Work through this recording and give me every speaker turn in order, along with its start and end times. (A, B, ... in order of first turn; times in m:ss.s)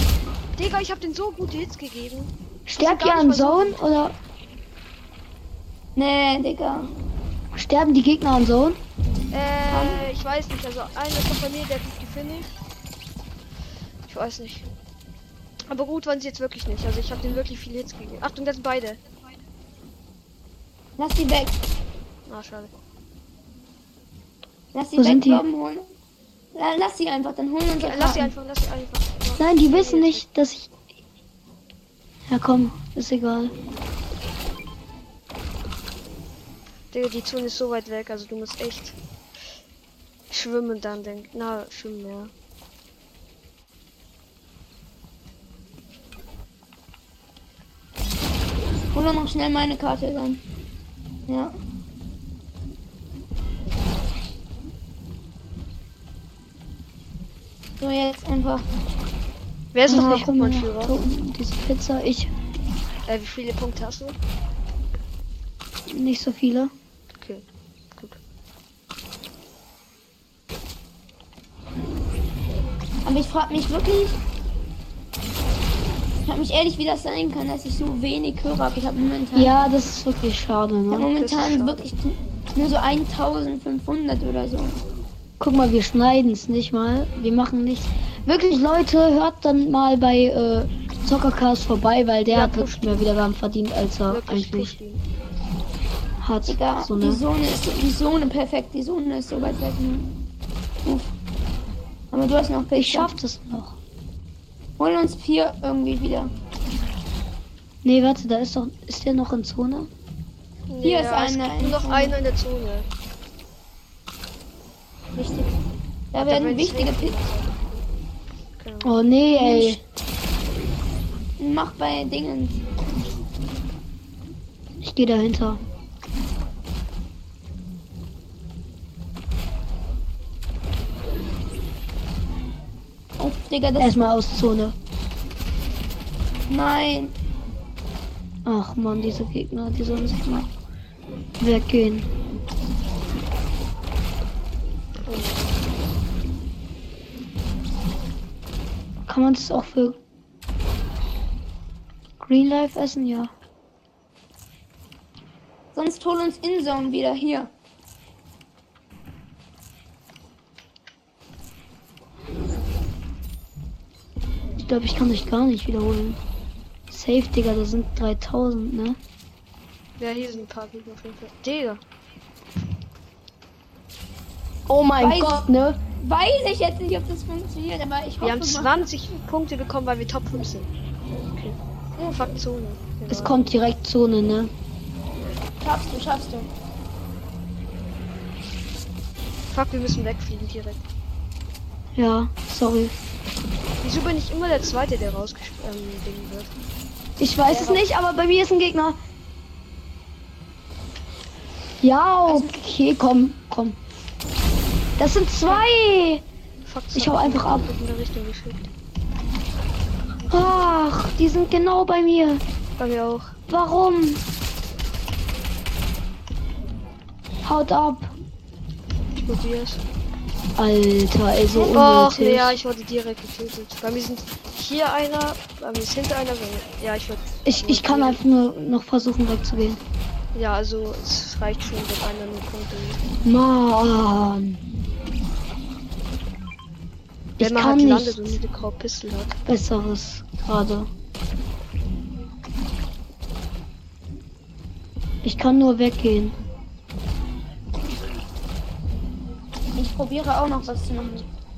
0:00.6-0:03.8 A
0:02.7-0:04.2 B
0:06.0-0:06.9 C
0:07.5-0:08.8 B
0:09.3-0:12.5 A
0:09.7-0:10.0 C
0:14.1-0:14.7 A
0:15.7-0:19.0 A
0:21.0-0:21.6 C
0:22.3-0:22.7 A
0:24.7-0:25.9 C
0:25.0-0:25.4 B
0:26.5-0:28.3 C
0:27.8-0:30.2 A
0:29.4-0:30.7 B
0:32.3-0:33.5 B
0:36.9-0:39.0 A
0:40.3-0:42.3 A
0:48.9-0:50.4 C
0:51.3-0:51.6 C
0:57.8-0:58.7 C
0:59.7-1:01.0 A
0:59.8-1:02.3 B
0:59.9-1:00.3 C
1:03.1-1:04.2 A
1:05.9-1:06.7 B
1:07.1-1:07.4 A
1:13.0-1:14.2 C
1:16.2-1:19.5 C
1:19.3-1:21.1 B
1:20.9-1:24.8 C
1:21.2-1:21.8 A
1:25.4-1:34.8 B
1:32.3-1:33.0 A
1:34.1-1:35.0 A
1:36.2-1:37.2 B
1:36.4-1:40.1 C
1:40.8-1:41.1 C
1:42.1-1:43.1 C
1:42.7-1:43.8 B
1:44.8-1:46.3 C
1:47.8-1:49.9 B
1:50.7-1:52.9 A
1:50.8-1:52.1 C
1:55.2-1:55.6 C
1:56.1-1:57.2 C
1:56.2-1:57.8 A
1:58.6-1:59.0 A
1:58.8-1:59.8 B
1:59.3-1:59.8 C
2:01.4-2:02.6 C
2:04.8-2:05.6 B
2:13.2-2:14.1 C
2:13.8-2:14.7 B
2:16.5-2:17.1 C
2:18.4-2:20.5 B
2:21.4-2:22.1 B
2:25.0-2:25.6 A
2:29.0-2:30.0 B
2:32.2-2:33.3 B
2:35.7-2:37.5 C
2:44.6-2:46.2 B
2:46.9-2:49.0 B
2:50.0-2:51.8 A
2:54.7-2:55.8 B
2:55.0-2:58.8 C
2:58.2-3:00.7 A
3:01.3-3:03.4 A
3:03.1-3:04.5 B
3:05.6-3:06.5 C
3:09.5-3:10.8 A
3:12.0-3:12.9 B
3:13.8-3:16.5 A
3:17.2-3:19.0 B
3:17.5-3:17.8 A
3:21.8-3:23.8 B
3:22.3-3:22.5 C
3:25.0-3:26.2 B
3:26.6-3:28.7 A
3:26.9-3:27.7 B
3:30.3-3:32.4 B
3:32.8-3:33.4 A
3:33.5-3:34.2 B
3:37.4-3:38.1 B
3:39.2-3:39.8 A
3:40.6-3:42.6 B
3:41.5-3:41.8 C
3:41.7-3:48.2 A
3:47.4-3:49.8 B
3:50.3-3:53.0 A
3:53.2-3:54.6 B
3:57.4-3:58.4 B
3:57.4-3:59.4 A
3:59.4-4:00.9 B
4:05.2-4:06.4 B
4:09.8-4:11.3 C